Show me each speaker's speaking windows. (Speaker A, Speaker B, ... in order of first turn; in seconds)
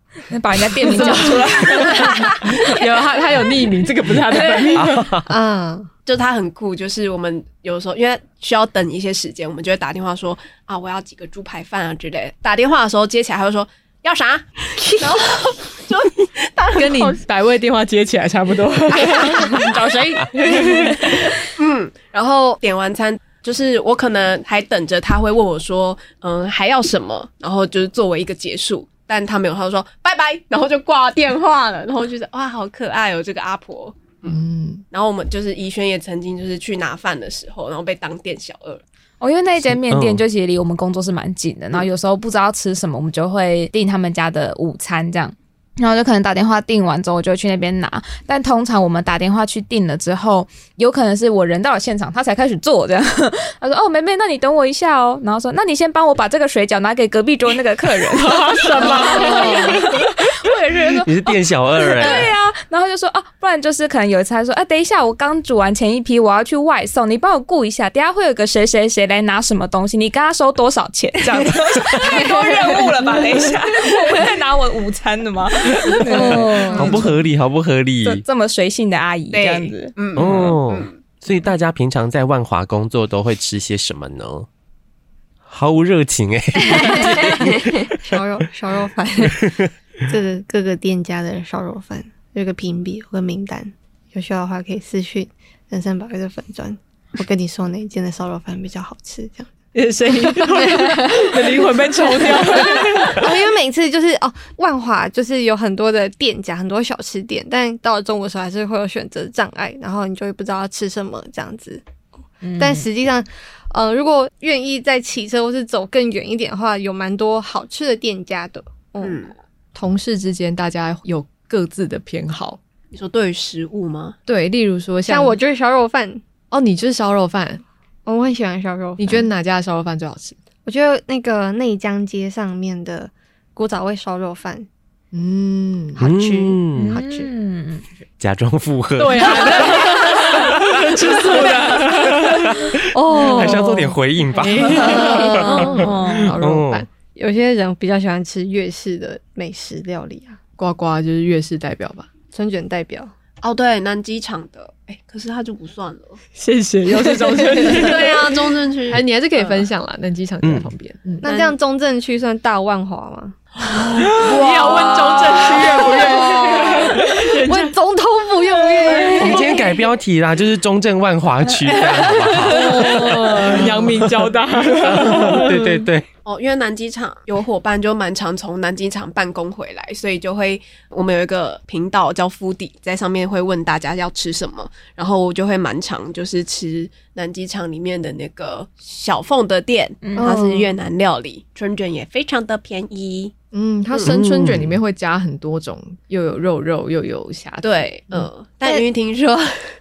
Speaker A: 0.3-2.5, 4.5-4.8, 19.3-21.3, 39.2-77.1, 78.0-79.9, 112.4-112.8, 136.7-137.8, 144.9-146.3, 190.0-190.3
Speaker B: 0.8-5.2, 16.7-19.8, 20.4-21.0, 34.2-34.8, 58.2-60.2, 76.0-77.1, 99.7-103.4, 119.7-122.6, 124.2-125.4, 126.5-127.6, 129.0-130.4, 135.1-136.0, 139.0-142.6, 143.2-146.9, 150.6-152.1, 156.3-158.2, 158.9-161.3, 163.8-167.7, 172.4-175.8, 193.5-198.3
Speaker C: 1.7-2.2, 6.0-17.2, 19.1-19.4, 21.4-38.8, 62.0-62.3, 79.3-81.0, 119.0-119.3, 122.9-124.2, 153.4-156.2, 157.6-159.5, 161.2-161.6, 164.2-166.8, 168.9-169.2, 176.2-193.3, 197.6-199.7
Speaker D: 4.7-5.3, 39.9-40.2, 61.0-62.3, 71.8-72.1, 76.1-78.2, 80.1-84.5, 85.5-88.0, 89.4-89.7, 136.0-137.0, 138.2-139.5, 142.1-146.8, 160.4-160.7, 169.2-174.1, 174.8-176.1, 194.0-194.8
Speaker E: 5.3-5.9, 14.8-15.1, 58.9-59.8, 76.0-77.0, 86.8-89.5, 90.1-99.5, 100.1-111.8, 112.6-119.3, 125.0-126.2, 128.1-129.3, 130.6-134.7, 136.0-137.3, 139.2-140.3, 141.1-141.7, 142.9-143.9, 144.6-145.9, 147.1-150.4, 152.3-153.1, 156.9-158.2, 161.2-163.3, 165.0-169.8, 171.9-173.7, 190.2-190.5